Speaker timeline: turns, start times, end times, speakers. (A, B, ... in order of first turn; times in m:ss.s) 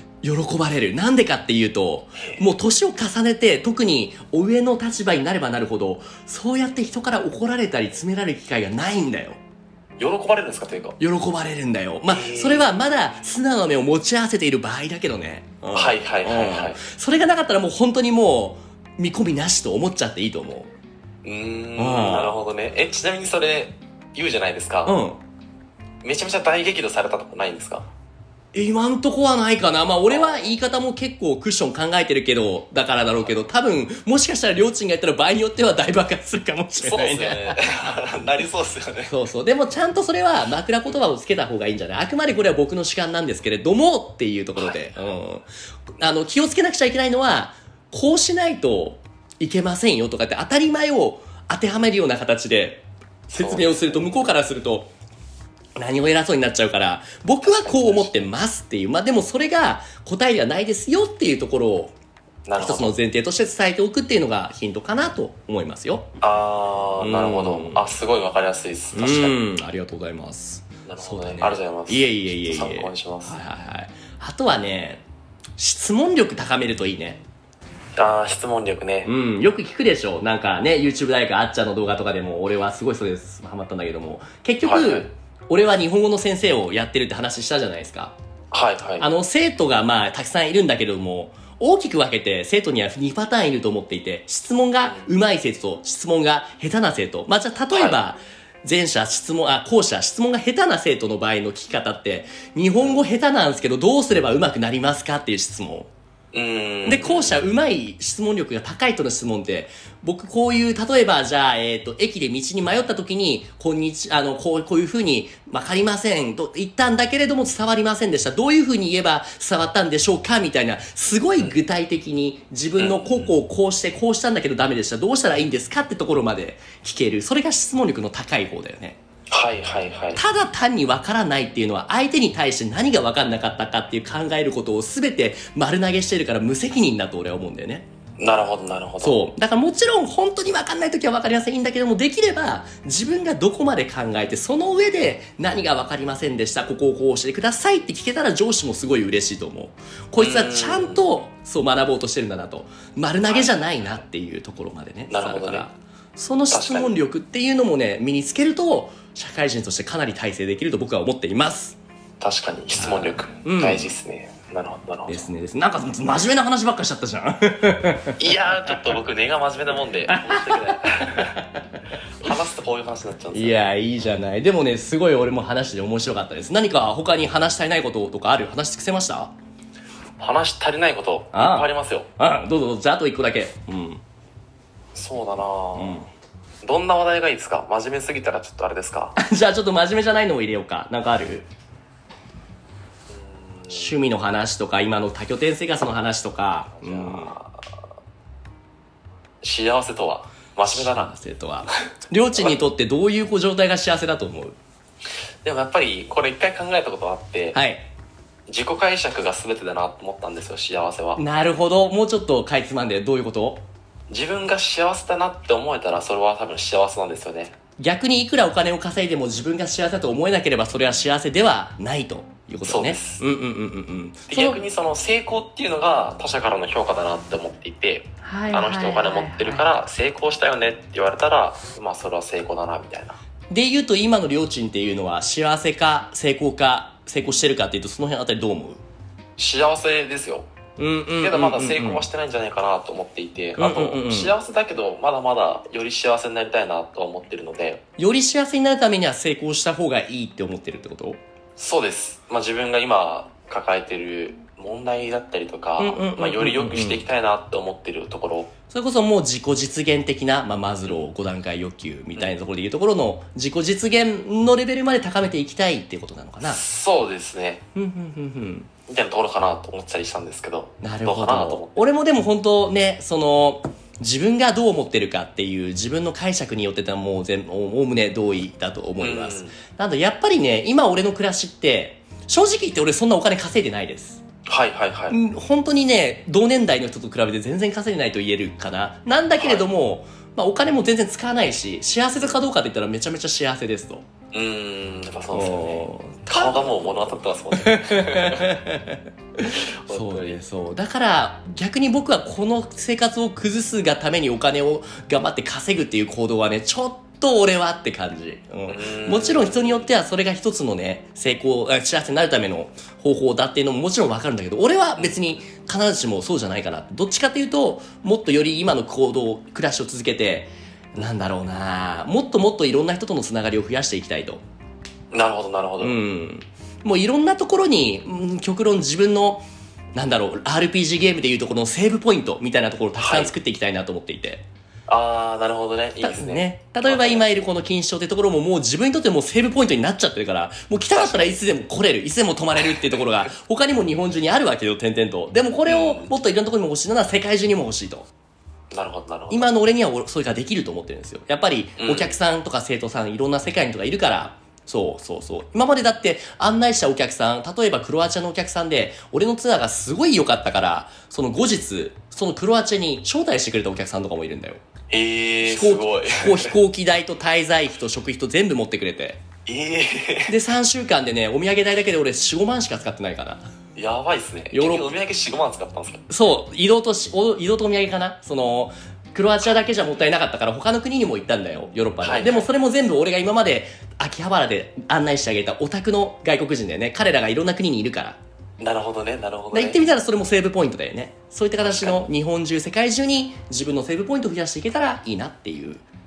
0:00.2-0:09.4 A
0:02.2-0:02.4 B
0:10.0-0:11.0 B
0:11.0-0:20.7 A
0:12.1-0:12.8 B
0:15.7-0:16.8 B
0:21.2-0:25.0 B
0:21.8-0:22.3 A
0:24.8-0:25.2 A
0:26.0-0:27.9 B
0:28.5-0:37.6 A
0:30.1-0:30.5 B
0:36.8-0:39.1 B
0:39.1-0:45.5 A
0:44.6-0:44.8 B
0:46.0-0:54.9 A
0:53.3-0:54.1 B
0:55.8-1:01.9 A
0:57.4-0:58.2 B
1:02.4-1:02.9 B
1:02.6-1:06.1 A
1:06.2-1:09.4 B
1:07.0-1:07.9 A
1:08.9-1:15.0 A
1:10.9-1:13.4 B
1:15.6-1:17.2 A
1:18.0-1:19.1 B
1:19.0-1:28.1 A
1:24.6-1:25.1 B
1:28.5-1:29.1 B
1:29.0-1:45.9 A
1:34.8-1:35.1 B
1:37.7-1:38.0 B
1:46.3-1:47.4 B
1:46.9-2:09.0 A
2:02.8-2:03.3 B
2:09.3-2:10.2 B
2:10.2-2:17.9 A
2:18.2-2:19.2 B
2:19.0-2:41.8 A
2:30.2-2:31.0 B
2:33.2-2:33.6 B
2:35.1-2:35.7 B
2:36.5-2:36.9 B
2:42.2-2:45.3 B
2:42.8-2:43.9 A
2:45.1-2:48.7 A
2:48.2-2:51.4 B
2:50.1-2:51.7 A
2:52.2-2:53.7 B
2:53.3-2:59.3 A
3:00.2-3:02.1 B
3:01.3-3:04.0 A
3:04.9-3:06.0 B
3:05.8-3:06.1 A
3:06.6-3:09.2 B
3:09.2-3:11.5 A
3:13.1-3:14.0 B
3:13.7-3:17.3 A
3:16.8-3:17.7 B
3:19.4-3:21.1 B
3:20.7-3:24.6 A
3:25.4-3:27.6 B
3:27.5-3:27.9 A
3:28.5-3:31.2 B
3:31.2-3:33.6 A
3:34.1-3:37.6 B
3:37.8-3:44.6 A
3:42.6-3:43.2 B
3:44.3-3:53.2 B
3:48.2-3:49.6 A
3:53.5-3:58.8 A
3:59.4-4:00.5 B
4:00.8-4:02.0 A
4:01.2-4:07.8 B
4:03.6-4:04.3 A
4:08.0-4:11.2 A
4:11.6-4:18.5 B
4:15.8-4:17.0 A
4:18.7-4:26.6 A
4:26.4-4:27.6 B
4:27.7-4:28.7 A
4:28.9-4:31.8 B
4:30.8-4:44.2 A
4:39.0-4:39.6 B
4:44.4-4:45.2 B
4:45.1-4:54.0 A
4:49.4-4:49.7 B
4:54.3-4:58.6 B
4:55.3-5:24.4 A
4:59.5-5:00.4 B
5:08.7-5:09.9 B
5:15.0-5:15.4 B
5:25.1-5:26.0 B
5:25.8-5:34.4 A
5:33.0-5:33.3 B
5:34.9-5:37.5 B
5:36.0-5:48.1 A
5:40.9-5:41.3 B
5:42.6-5:43.1 B
5:45.6-5:46.1 B
5:48.7-5:49.5 B
5:49.3-6:04.6 A
5:51.8-5:52.2 B
6:04.9-6:06.6 B
6:05.4-6:09.2 A
6:09.4-6:10.4 B
6:10.3-6:13.5 A
6:13.7-6:16.0 B
6:14.5-6:14.9 A
6:16.1-6:28.2 A
6:22.0-6:22.5 B
6:28.6-6:29.8 B
6:29.5-6:35.8 A
6:31.6-6:32.0 B